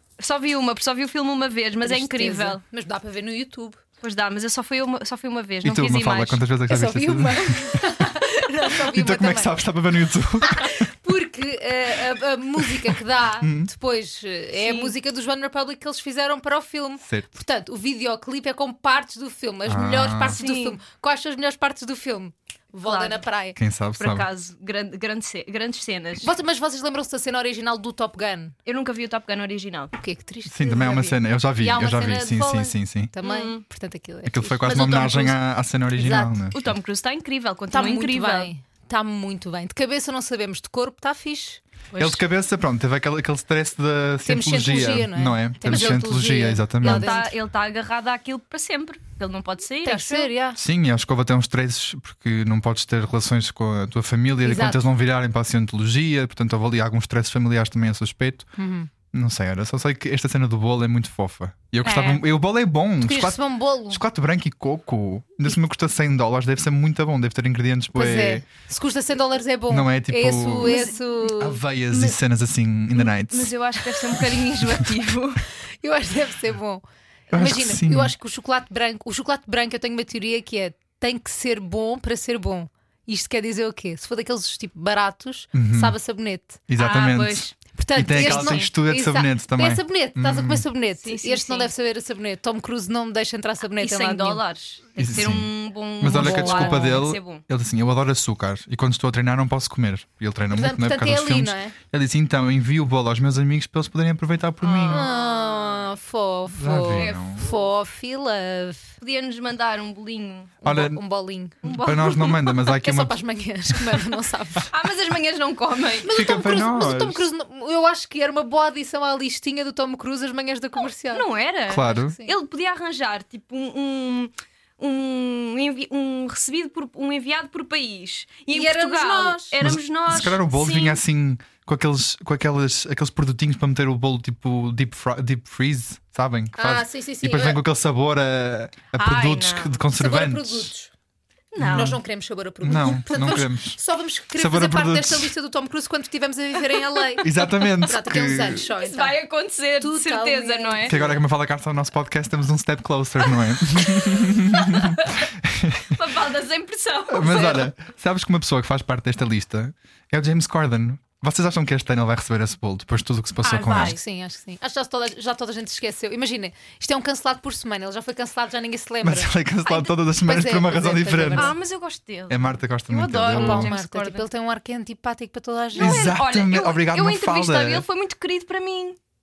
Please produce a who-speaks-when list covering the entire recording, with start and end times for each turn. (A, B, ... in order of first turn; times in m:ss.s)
0:00.2-0:02.6 A
0:01.8-0:03.8 B
0:04.0-0:06.4 A
0:05.6-0:07.8 C
0:06.7-0:09.6 B
0:08.9-0:10.9 C
0:10.4-0:23.6 B
0:13.4-0:13.7 C
0:14.6-0:14.9 A
0:17.0-0:17.3 C
0:19.7-0:20.4 C
0:20.2-0:20.8 A
0:22.8-0:23.2 A
0:23.6-0:24.3 C
0:24.0-0:26.3 A
0:26.2-0:28.5 B
0:28.6-0:29.9 A
0:29.9-0:35.2 B
0:30.5-0:33.1 C
0:33.2-0:33.6 A
0:34.3-0:36.6 C
0:34.7-0:35.4 A
0:36.0-0:36.5 B
0:36.5-0:38.5 A
0:37.7-0:41.6 B
0:41.9-0:42.2 A
0:42.0-0:47.2 C
0:44.2-0:47.3 B
0:45.7-0:46.0 A
0:46.8-0:50.3 A
0:49.8-0:50.6 B
0:50.6-0:58.5 C
0:54.4-0:54.8 B
0:58.6-0:58.9 B
0:59.1-1:08.5 C
1:01.8-1:02.2 A
1:03.0-1:04.0 B
1:07.9-1:11.6 B
1:09.7-1:14.9 C
1:10.6-1:11.0 A
1:13.0-1:15.4 A
1:15.8-1:26.6 B
1:17.3-1:18.2 C
1:25.5-1:26.0 C
1:26.7-1:30.6 C
1:26.8-1:27.6 A
1:27.7-1:34.4 B
1:28.1-1:28.7 A
1:31.0-1:31.7 A
1:33.8-1:37.4 A
1:35.0-1:45.1 C
1:36.1-1:37.0 B
1:40.5-1:41.8 B
1:44.6-1:45.9 A
1:44.9-1:48.9 B
1:46.6-1:47.4 C
1:46.9-1:47.6 A
1:49.0-1:50.6 A
1:50.6-1:51.6 B
1:50.6-1:51.0 C
1:51.6-1:52.6 A
1:51.6-1:53.2 C
1:52.7-1:54.7 B
1:54.7-1:56.1 A
1:56.0-2:01.2 B
1:56.1-1:57.3 C
2:01.1-2:11.0 A
2:01.7-2:02.2 C
2:08.5-2:09.6 B
2:09.6-2:20.7 C
2:16.6-2:17.6 B
2:19.0-2:19.8 A
2:19.9-2:20.9 B
2:21.5-2:22.0 A
2:21.6-2:22.0 C
2:21.7-2:29.2 B
2:22.6-2:23.8 C
2:24.4-2:25.3 C
2:27.2-2:28.6 C
2:28.8-2:31.0 A
2:29.8-2:31.1 B
2:30.8-2:36.0 C
2:33.6-2:35.3 A
2:35.9-2:37.7 A
2:37.1-2:44.0 C
2:43.4-2:44.0 A
2:43.7-2:49.3 B
2:49.0-2:51.6 C
2:50.1-2:51.5 B
2:51.4-2:54.3 A
2:52.3-2:53.7 C
2:53.3-2:56.1 B
2:55.8-2:59.0 A
2:55.8-2:57.9 C